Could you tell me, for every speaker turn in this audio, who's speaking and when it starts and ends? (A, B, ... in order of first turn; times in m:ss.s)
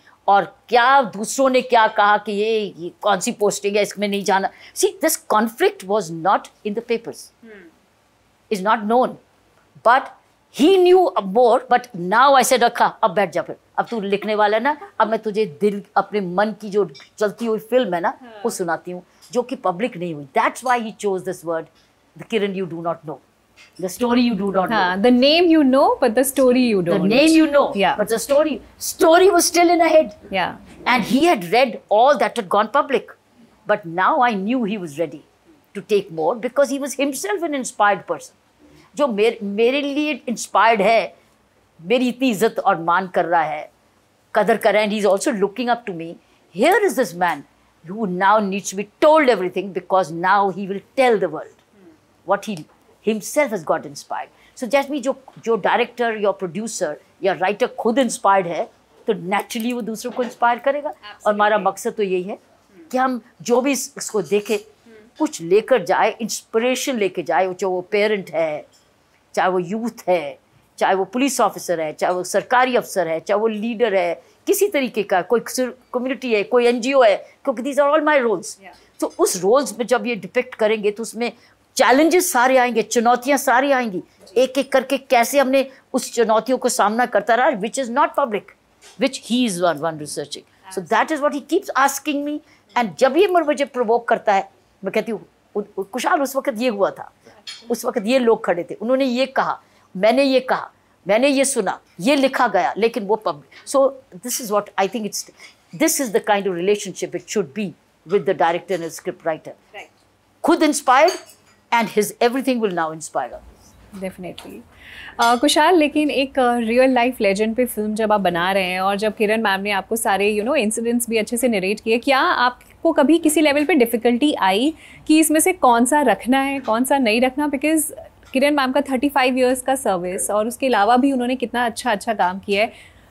0:00.3-0:07.3 A
0:08.5-0:09.2 A
0:09.8-0:23.2 A
0:23.8-0:24.9 A
0:24.7-0:28.0 B
0:26.9-0:30.2 A
0:30.3-0:30.6 B
0:30.9-0:33.2 A
0:33.7-0:38.4 A
0:39.0-0:41.1 A
0:41.8-0:43.7 A
0:44.3-0:51.6 A
0:52.3-1:02.4 A
1:02.9-1:04.6 A
1:05.2-1:08.6 A
1:09.3-1:49.6 A
1:50.4-1:51.2 A
1:51.7-1:53.5 A
1:54.0-1:54.6 B
1:55.2-2:12.7 B